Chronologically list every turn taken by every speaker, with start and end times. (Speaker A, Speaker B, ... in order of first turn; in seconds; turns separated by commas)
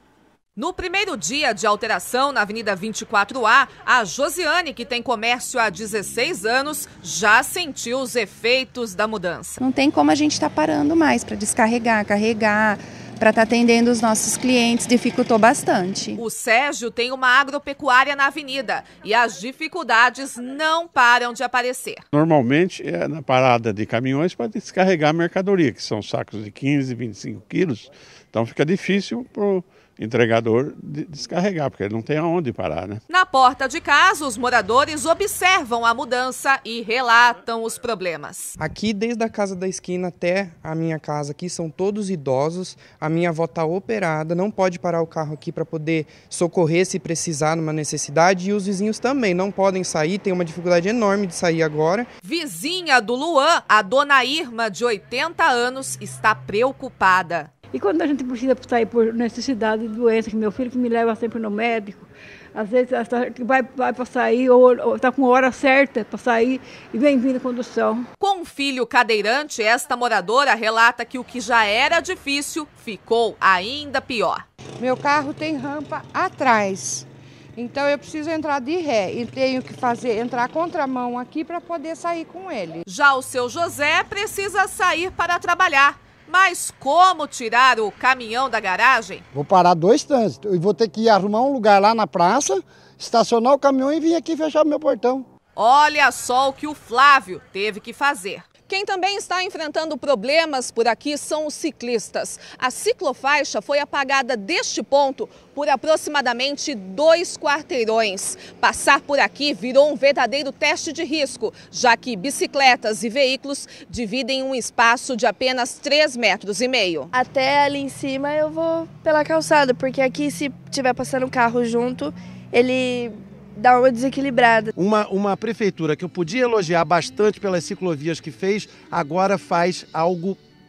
Speaker A: 0.6-9.6, Speaker B: 9.6-16.2, Speaker A: 16.2-22.0, Speaker C: 22.1-33.0, Speaker A: 33.1-38.5, Speaker D: 38.6-52.1, Speaker A: 52.2-57.5, Speaker E: 57.7-68.1, Speaker A: 68.2-74.4, Speaker F: 74.8-82.8, Speaker A: 82.8-89.2, Speaker G: 89.3-95.3, Speaker A: 95.6-117.1, Speaker H: 117.1-124.7, Speaker I: 124.8-130.4